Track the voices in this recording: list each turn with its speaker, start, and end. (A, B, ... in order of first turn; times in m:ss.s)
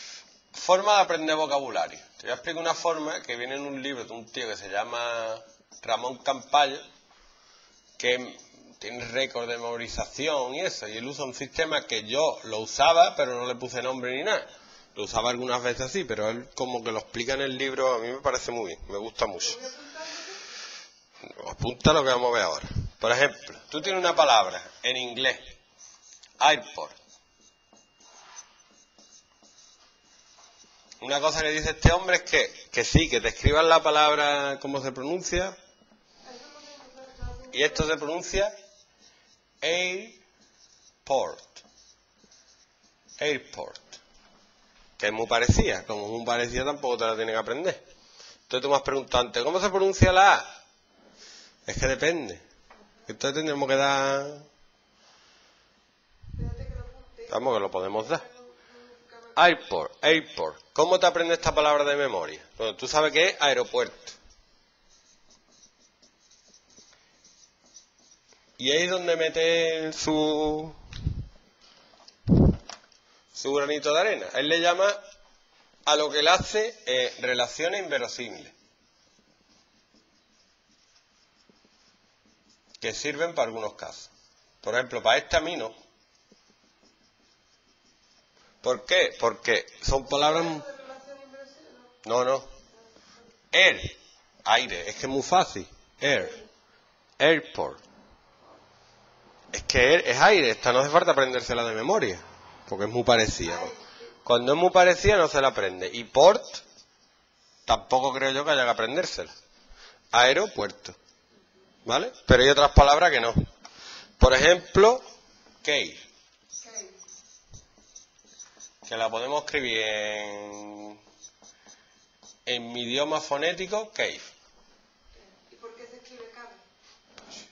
0:00.5-0:06.8 A
0:08.0-0:19.6 A
0:19.4-0:20.4 B
0:21.3-0:25.4 A
0:26.4-0:27.0 A
0:31.0-0:35.6 A
0:36.2-0:38.0 B
0:37.5-0:38.5 A
0:39.6-0:40.2 A
0:41.0-0:41.6 A
0:43.2-0:44.0 A
0:45.0-0:47.8 A
0:48.5-0:50.5 A
0:51.7-0:52.4 A
0:53.1-0:54.5 A
0:56.4-0:59.5 B
0:57.3-0:58.2 A
0:59.4-1:04.2 A
1:08.6-1:10.8 A
1:13.3-1:15.0 A
1:15.9-1:18.5 A
1:22.8-1:24.1 A
1:24.6-1:25.7 A
1:28.6-1:30.6 A
1:30.0-1:32.0 B
1:32.0-1:32.5 A
1:33.5-1:36.4 A
1:36.1-1:36.5 B
1:37.2-1:37.8 A
1:39.5-1:43.7 A
1:43.4-1:44.1 B
1:44.2-1:46.6 A
1:47.7-1:49.3 A
1:50.1-1:51.0 A
1:51.9-1:53.4 A
1:54.2-1:55.0 A
1:55.6-1:56.0 A
1:56.6-1:57.0 B
1:58.8-2:01.0 A
2:02.5-2:04.3 A
2:05.2-2:06.6 B